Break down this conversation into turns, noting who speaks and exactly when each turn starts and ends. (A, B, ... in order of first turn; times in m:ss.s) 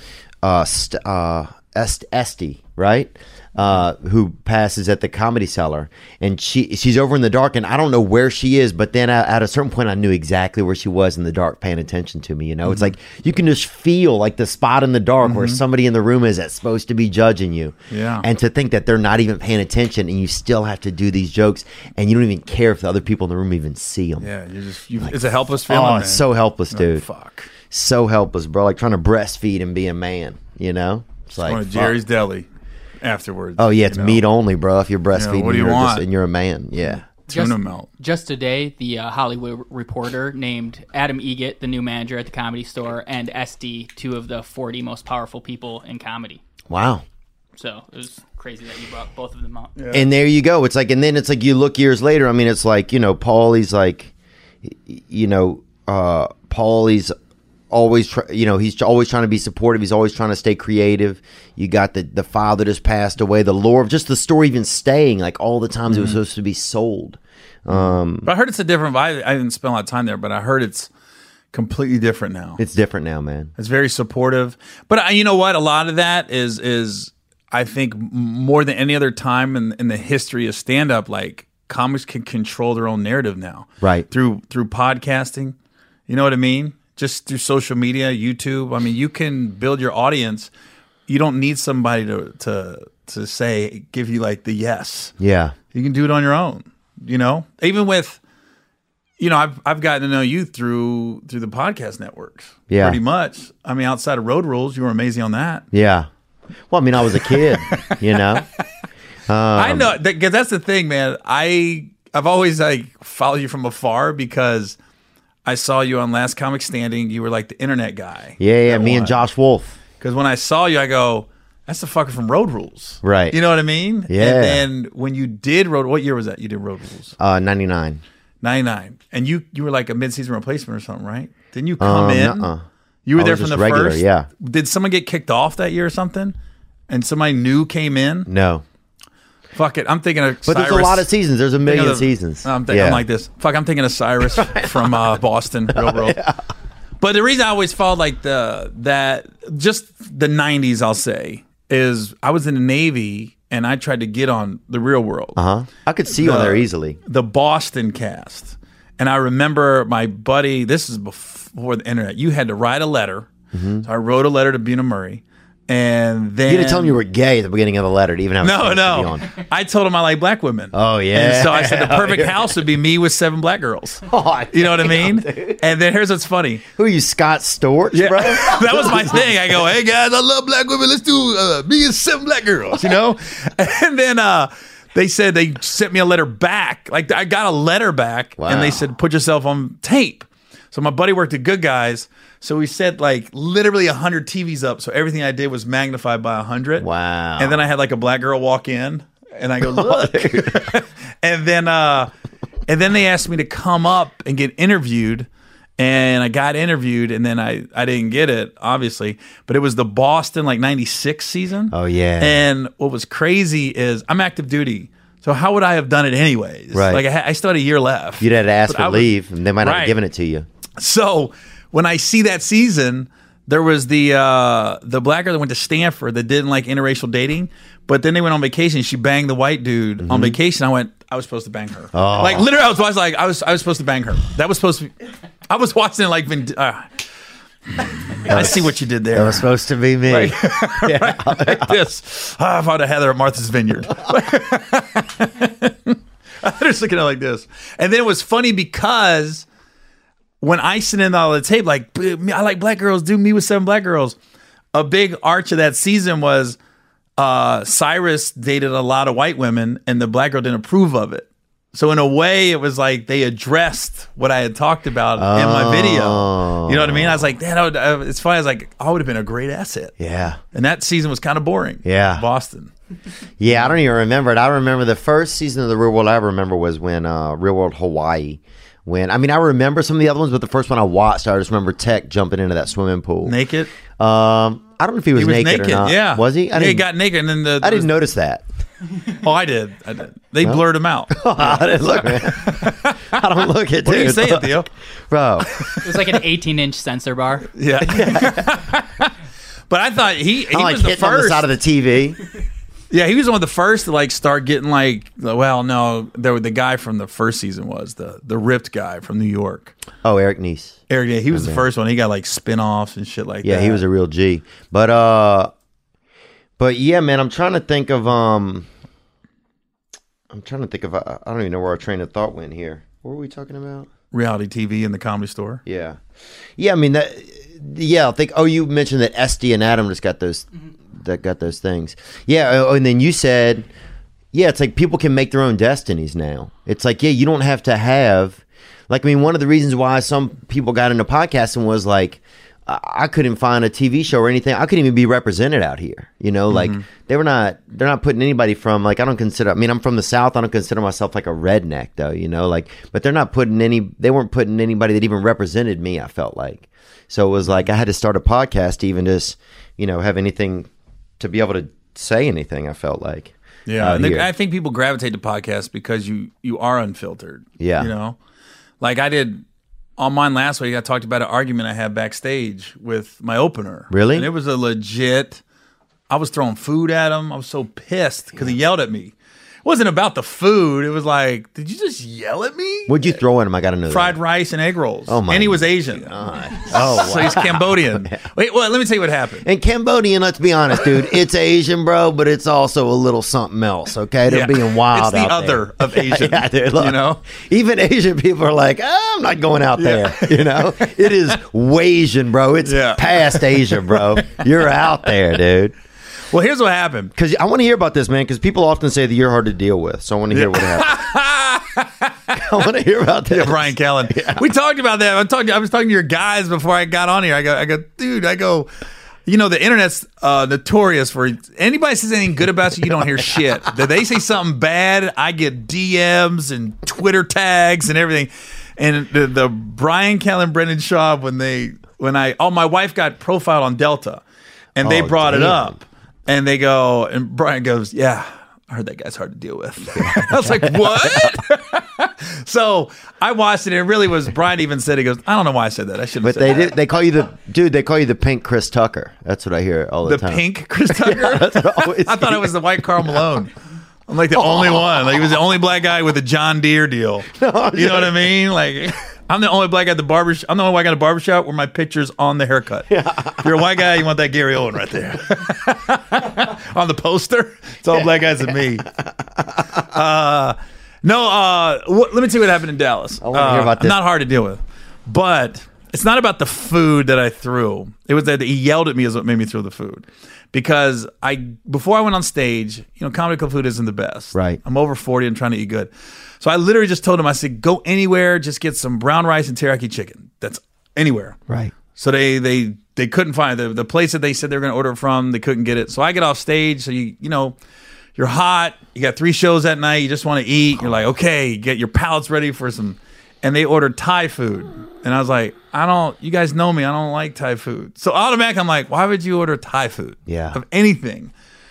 0:00.4-0:24.3 A
0:12.6-0:12.9 B
0:15.2-0:15.6 B
0:17.9-0:18.3 B
0:24.2-0:27.5 B
0:25.0-0:27.0 A
0:27.7-0:32.0 A
0:31.4-0:32.5 B
0:33.0-0:34.2 B
0:33.6-0:37.0 A
0:35.1-0:36.1 B
0:36.8-0:37.9 B
0:37.3-0:46.4 C
0:46.7-0:47.0 A
0:47.6-0:49.7 C
0:49.8-0:50.1 B
0:49.9-0:54.1 A
0:54.6-0:57.2 A
0:57.7-1:08.3 A
1:05.9-1:06.2 B
1:07.7-1:10.9 B
1:11.5-1:12.6 B
1:12.6-1:13.5 A
1:13.6-1:25.6 B
1:23.8-1:24.1 A
1:26.1-1:30.5 B
1:31.1-1:35.2 B
1:35.2-1:35.6 A
1:35.7-1:38.2 B
1:39.2-1:45.6 B
1:42.7-1:43.0 A
1:45.7-1:46.1 A
1:46.7-1:48.5 A
1:47.1-1:48.4 B
1:49.3-1:50.0 A
1:49.6-1:54.8 B
1:55.4-1:59.2 B
1:58.4-1:59.8 A
2:00.0-2:07.2 B
2:03.0-2:03.4 A
2:04.1-2:04.6 A
2:07.2-2:08.0 A
2:08.4-2:12.5 B
2:11.8-2:12.6 A
2:13.0-2:16.4 B
2:13.2-2:14.3 A
2:16.9-2:18.3 B
2:18.3-2:18.6 A
2:19.5-2:21.1 B
2:20.4-2:23.0 A
2:21.6-2:26.2 B
2:24.3-2:25.1 A
2:25.7-2:26.4 A
2:27.0-2:35.4 B
2:35.4-2:37.0 A
2:36.1-2:43.3 B
2:43.5-2:43.9 A
2:43.8-2:47.0 B
2:46.5-2:49.3 A
2:48.4-2:56.6 B
2:50.7-2:52.6 A
2:54.1-2:55.6 A
2:56.8-2:59.6 A
2:57.9-3:22.1 B
3:08.4-3:08.9 A
3:16.8-3:17.6 A
3:19.6-3:20.8 A
3:22.7-3:40.0 B
3:31.7-3:32.4 A
3:36.7-3:37.0 A
3:38.2-3:40.5 A
3:40.8-3:54.9 B
3:50.0-3:50.4 A
3:51.9-3:52.5 A
3:55.5-3:57.0 B
3:57.8-3:59.5 B
3:58.3-4:01.8 A
4:00.1-4:09.5 B
4:10.4-4:14.2 B
4:14.7-4:16.6 B
4:17.2-4:30.0 B
4:25.2-4:27.3 A
4:30.0-4:30.4 A
4:30.5-4:32.7 B
4:31.8-4:32.2 A
4:33.4-4:43.4 A
4:43.2-4:43.7 B
4:44.0-4:46.9 A
4:45.1-4:48.0 B
4:47.6-4:48.4 A
4:49.2-4:53.3 B
4:50.4-4:55.6 A
4:53.8-4:54.7 B
4:55.5-4:56.2 B
4:55.8-4:57.5 C
4:57.5-4:59.1 B
4:57.9-4:58.4 A
4:59.7-5:01.5 B
5:00.5-5:02.2 A
5:02.9-5:09.7 B
5:10.0-5:10.8 A
5:10.9-5:13.8 B
5:11.3-5:11.6 A
5:13.4-5:15.5 A
5:16.6-5:18.7 A
5:20.3-5:23.9 A
5:24.1-5:25.6 B
5:25.7-5:26.0 A
5:26.6-5:33.7 A
5:34.3-6:04.3 A
5:46.5-5:46.8 B
6:03.7-6:08.2 B
6:07.6-6:07.9 A
6:08.8-6:09.4 B
6:10.0-6:15.4 B
6:13.9-6:14.3 A
6:16.1-6:23.2 B
6:22.9-6:24.2 A
6:23.9-6:29.5 B
6:25.1-6:28.2 A
6:29.4-6:45.7 A
6:34.3-6:37.2 B
6:39.8-6:40.9 B
6:42.6-6:44.4 B
6:46.3-6:47.1 B
6:47.2-6:51.0 A
6:50.3-6:52.6 B
6:52.4-6:54.4 A
6:53.3-6:58.7 B
6:59.3-7:14.2 B
7:14.8-7:26.8 B
7:14.8-7:15.8 A
7:20.0-7:21.3 A
7:26.2-7:32.5 A
7:30.0-7:33.5 B
7:34.1-7:48.9 B
7:34.4-7:34.9 A
7:37.3-7:38.2 A
7:42.9-7:43.4 A
7:49.7-8:11.4 B
7:53.2-7:54.0 A
8:04.3-8:04.6 A
8:11.5-8:11.7 A
8:11.9-8:17.6 B
8:18.2-8:31.3 B
8:30.3-8:30.6 A